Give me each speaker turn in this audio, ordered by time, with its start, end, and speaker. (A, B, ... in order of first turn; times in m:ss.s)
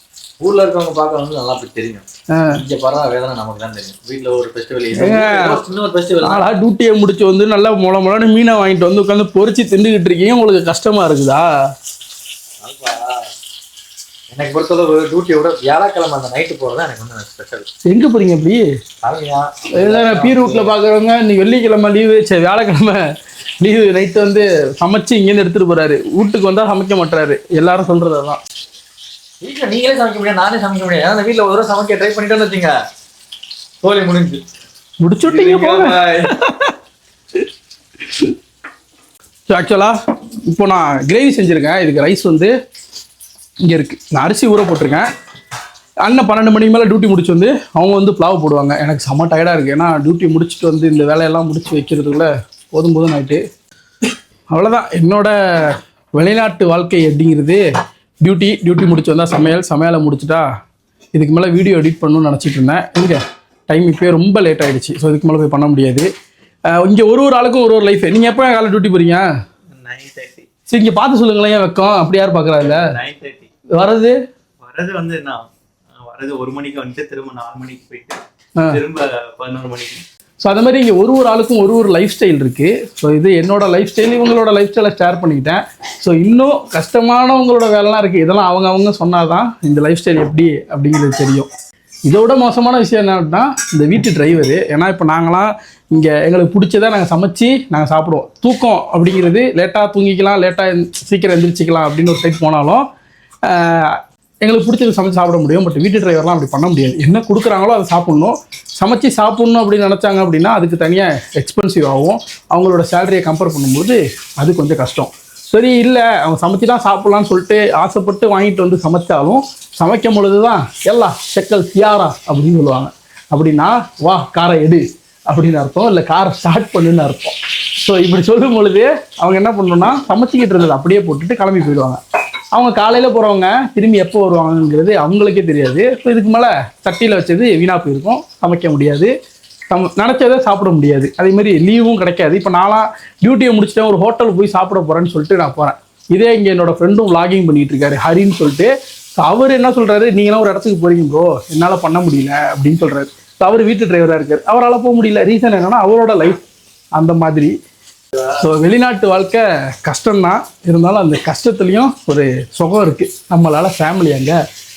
0:00.4-0:06.5 A
0:02.3-0:02.6 B
0:05.0-0:05.6 B
0:06.2-0:11.5 B
0:12.6-0:13.2 A
0:14.3-0:17.7 A
0:17.8-0:18.6 B
0:19.0-0:20.7 A
0:19.8-0:23.0 B
0:23.6-0:28.4 B
0:29.4-0:32.7 A
0:33.8-0:34.4 A
0:35.0-0:36.7 B
0:35.2-0:36.3 A
0:38.0-0:38.3 B
0:39.5-0:39.9 B
0:40.4-0:42.5 B
0:43.6-0:45.0 B
0:46.0-0:53.4 B
0:54.5-0:57.6 B
0:58.2-1:00.4 B
1:01.1-1:06.1 B
1:06.7-1:09.2 B
1:09.7-1:10.5 C
1:10.7-1:12.8 B
1:12.6-1:13.5 C
1:13.7-1:14.2 B
1:14.6-1:20.0 C
1:20.4-1:31.5 B
1:32.0-1:42.8 B
1:43.4-2:12.0 B
2:12.5-2:19.1 B
2:19.7-2:36.4 B
2:37.0-2:37.5 B
2:38.2-2:44.4 B